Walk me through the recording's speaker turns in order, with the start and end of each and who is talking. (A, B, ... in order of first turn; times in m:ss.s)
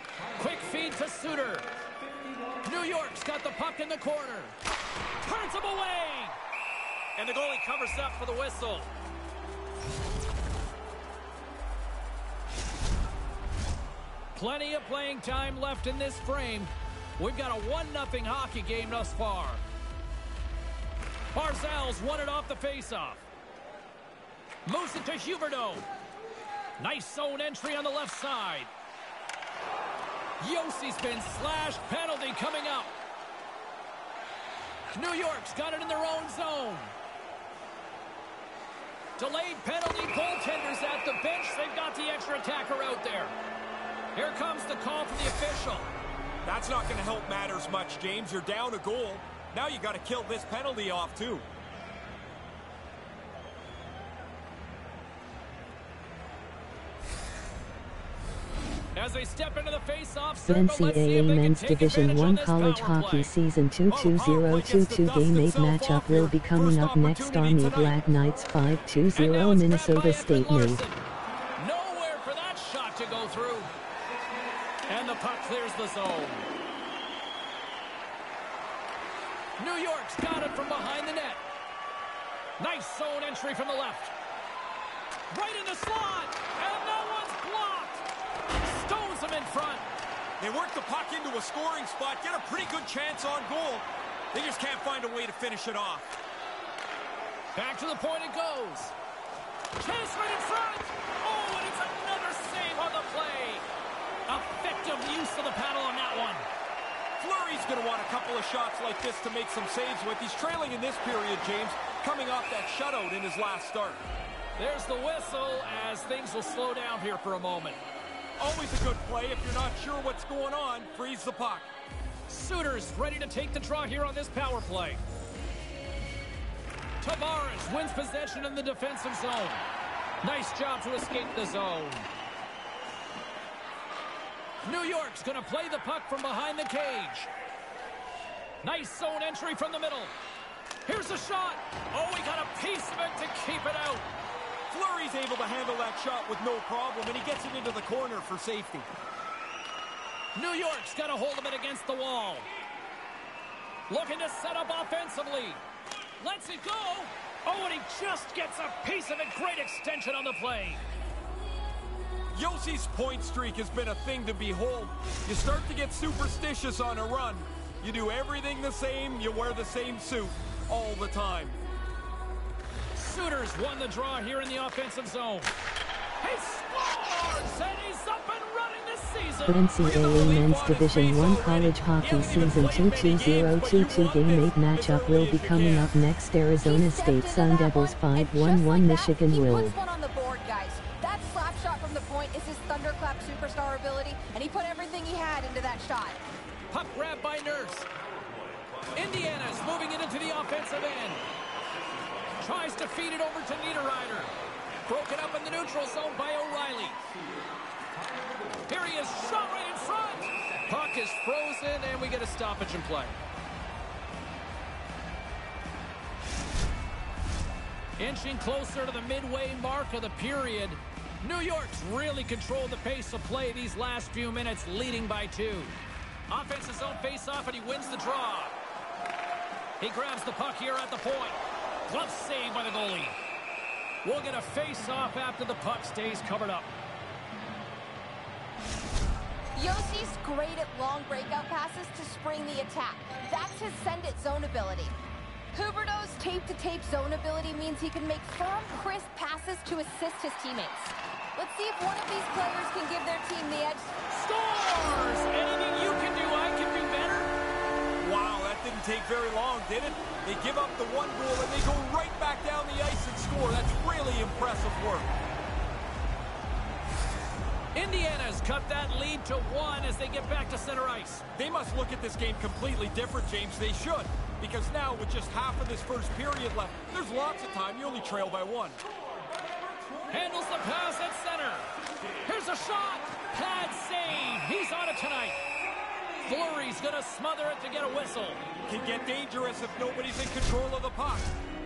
0:00.4-0:01.7 A
0:02.6-0:04.6 A
0:05.2-0:06.3 A
0:07.2-0:08.9 A
0:14.3-0:19.6 A
0:21.3-0:23.2 A
0:24.7-0:25.9 A
0:26.8-0:28.7 A
0:30.4-0:32.9 A
0:34.9-0:36.9 A
0:39.2-0:43.3 A
0:44.2-0:45.9 A
0:46.4-0:51.4 B
0:58.9-1:03.3 A
1:00.5-1:10.8 C
1:03.9-1:08.0 B
1:09.1-1:11.0 A
1:11.6-1:13.7 A
1:14.9-1:16.5 A
1:19.6-1:21.4 A
1:22.6-1:24.1 A
1:25.3-1:28.0 A
1:28.6-1:29.9 A
1:30.4-1:36.1 B
1:37.6-1:38.9 A
1:39.8-1:43.6 A
1:44.3-1:46.4 A
1:47.2-1:54.0 B
1:54.6-1:57.8 A
1:58.4-2:01.7 B
2:02.3-2:05.0 A
2:07.0-2:09.6 A
2:10.2-2:12.1 A
2:14.6-2:17.3 A
2:18.6-2:20.1 A
2:20.8-2:24.1 A
2:24.7-2:28.9 B
2:30.3-2:32.5 A
2:33.9-2:35.6 A
2:36.2-2:40.8 A
2:42.3-2:51.6 B
2:52.9-2:55.5 A
2:56.2-2:59.8 A
2:59.4-3:09.8 C
2:59.8-3:05.9 B
3:06.6-3:16.2 D
3:16.7-3:17.9 A
3:18.9-3:21.2 A
3:22.4-3:24.3 A
3:24.8-3:27.0 A
3:28.7-3:33.2 A
3:38.0-3:45.8 A
3:46.3-3:48.6 A
3:49.8-3:53.2 A
3:54.0-3:56.7 A
3:59.6-4:04.9 D
4:05.5-4:13.9 D
4:14.1-4:17.3 A
4:18.0-4:25.1 B
4:27.7-4:31.2 A
4:31.3-4:38.8 B
4:40.1-4:41.7 A
4:42.2-4:45.4 A
4:46.2-4:48.4 A
4:48.6-4:51.3 B